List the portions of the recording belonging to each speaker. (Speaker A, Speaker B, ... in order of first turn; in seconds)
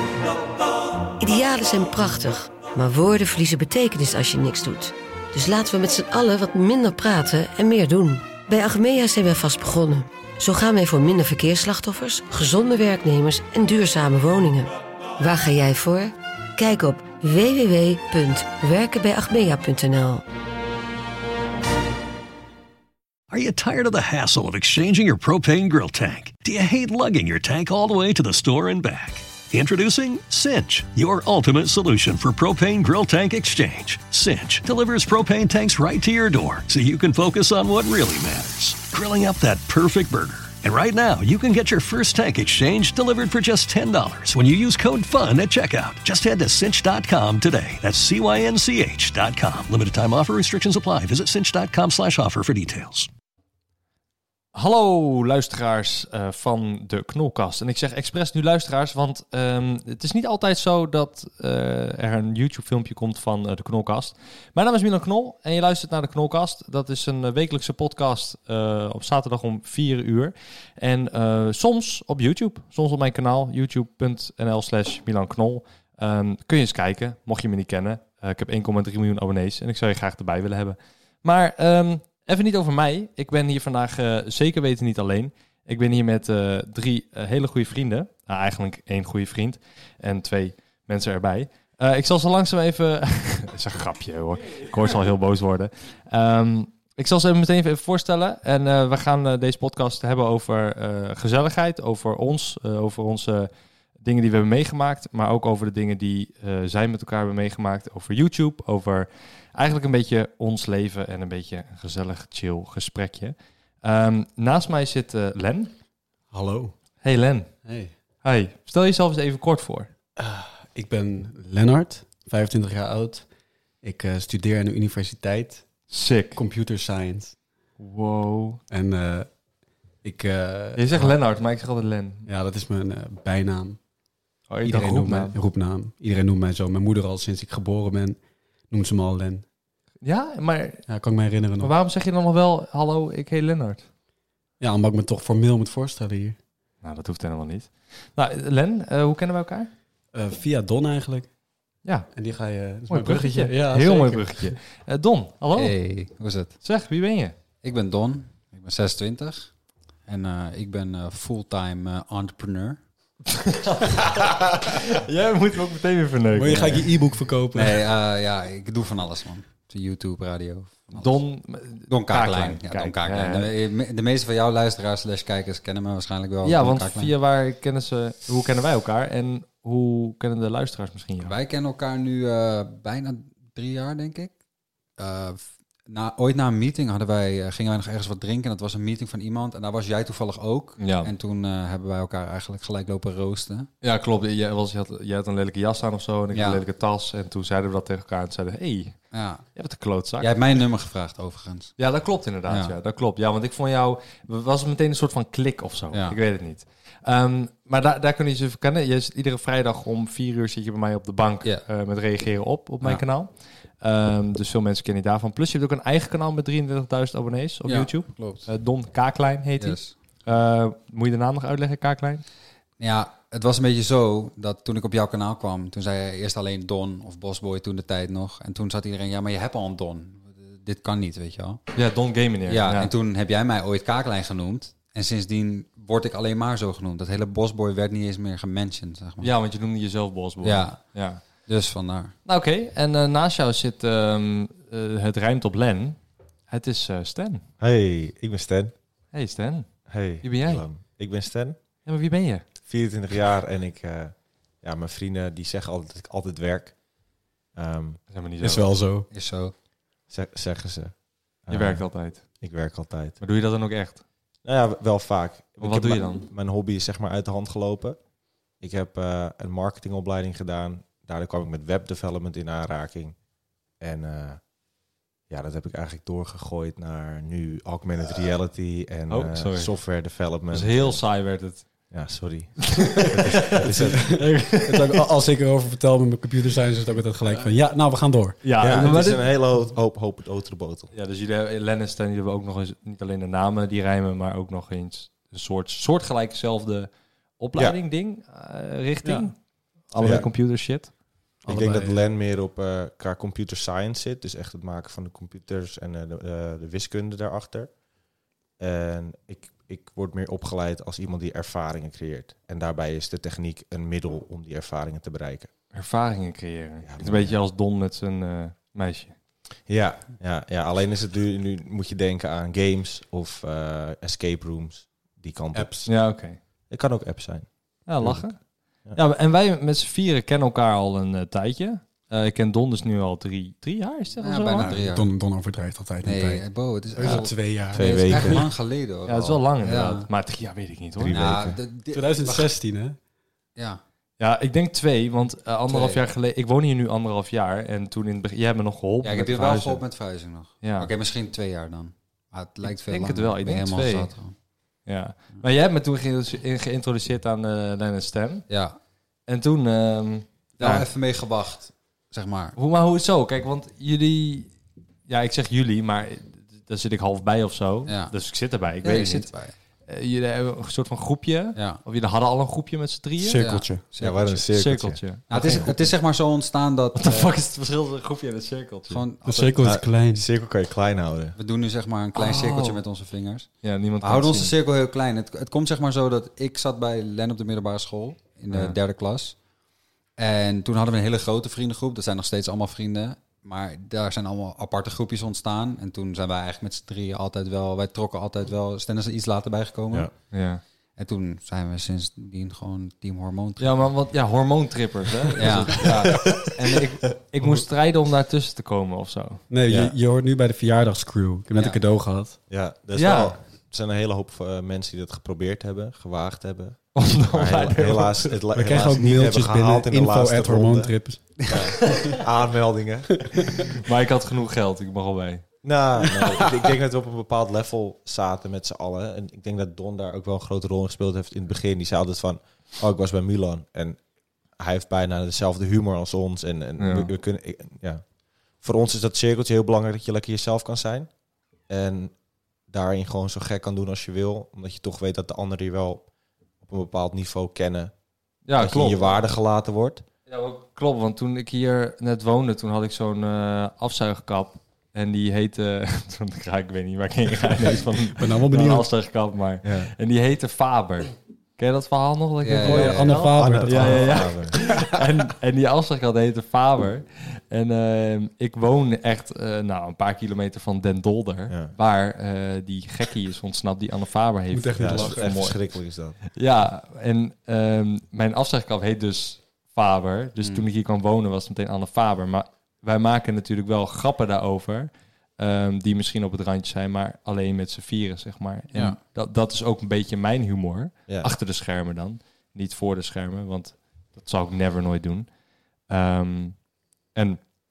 Speaker A: 1.2-20.2
Speaker B: 23.3-53.1
Speaker C: 54.5-115.7, 117.0-117.5, 118.2-119.9, 125.9-126.4, 127.8-128.6, 130.8-132.3, 134.5-135.4, 140.0-140.9, 141.6-143.9, 146.8-149.7, 152.9-155.8, 156.6-157.3, 163.4-166.8, 170.9-173.6, 176.4-181.3, 190.8-191.1, 193.8-199.0, 199.6-200.4, 201.8-222.2, 231.7-232.9, 239.2-241.2, 242.3-247.5, 249.1-250.7, 251.8-252.4, 258.1-258.8, 261.5-262.3, 263.2-264.0, 265.6-266.3, 279.1-279.8, 280.5-281.9, 282.9-285.0, 288.4-289.3, 290.9-300.9, 315.7-319.1, 325.9-326.4, 327.9-334.8, 337.0-337.3, 339.1-341.4, 344.2-349.8, 350.6-350.9, 352.6-354.1, 354.9-358.5, 359.3-360.9, 362.6-364.5, 365.1-369.3, 369.9-373.5, 374.4-375.9, 376.9-379.0, 382.1-382.8, 383.6-384.5, 388.5-388.8, 400.3-400.6, 403.6-409.4, 412.9-413.4, 416.9-418.4, 423.9-425.5, 436.8-437.1, 448.5-449.1, 450.3-497.5
Speaker D: 116.3-116.7, 117.7-117.9, 120.2-123.3, 123.8-127.3, 128.7-129.3, 130.0-131.2, 132.3-133.8, 134.6-139.4, 140.9-141.7, 144.6-146.4, 150.1-151.3, 152.1-154.6, 166.3-167.8, 258.4-259.1, 282.7-289.0, 299.0-299.3, 301.5-302.1, 325.5-325.9, 334.6-338.4, 341.9-343.0, 373.2-373.9, 379.2-380.3, 409.5-412.4, 418.5-422.2, 426.2-426.5, 457.6-458.9, 462.6-464.7, 474.5-475.4
Speaker E: 155.6-156.6, 157.6-159.5, 160.1-162.8, 166.5-166.9, 167.5-171.2, 171.9-177.1, 181.2-184.3, 185.0-193.7, 196.3-196.6, 199.1-199.4, 200.2-201.7, 202.5-202.8, 205.9-206.2, 217.7-218.5, 219.6-220.0, 222.8-231.6, 232.5-239.3, 240.4-242.2, 259.1-259.5, 334.2-335.1, 336.0-340.1, 341.1-342.5, 343.6-343.8, 345.7-346.0, 349.0-354.3, 358.5-358.8, 360.6-362.6, 367.9-368.2, 368.8-369.5, 371.6-371.8, 373.3-374.5, 375.3-377.4, 378.9-379.6, 381.4-383.5, 384.0-389.4, 390.2-400.1, 401.0-404.1, 405.3-406.0, 411.5-411.8, 421.4-421.8, 462.4-463.2, 480.4-480.7, 488.7-489.0
Speaker F: 247.6-248.7, 249.9-251.6, 252.7-257.0, 257.5-258.0, 260.1-263.2, 264.4-268.0, 268.5-273.2, 273.8-274.5, 275.3-281.1, 281.9-284.1, 288.6-290.9, 300.0-300.3, 301.4-307.8, 308.6-315.5, 316.8-317.3, 319.7-325.9, 326.7-329.0, 337.7-338.5, 341.0-341.6, 374.0-375.7, 379.6-381.4, 406.1-406.4, 409.7-410.0, 412.5-423.3, 425.6-434.0, 434.5-441.1, 441.7-442.2, 442.7-447.9, 448.5-450.1, 459.6-459.9, 463.3-464.6, 471.5-471.7, 474.8-476.2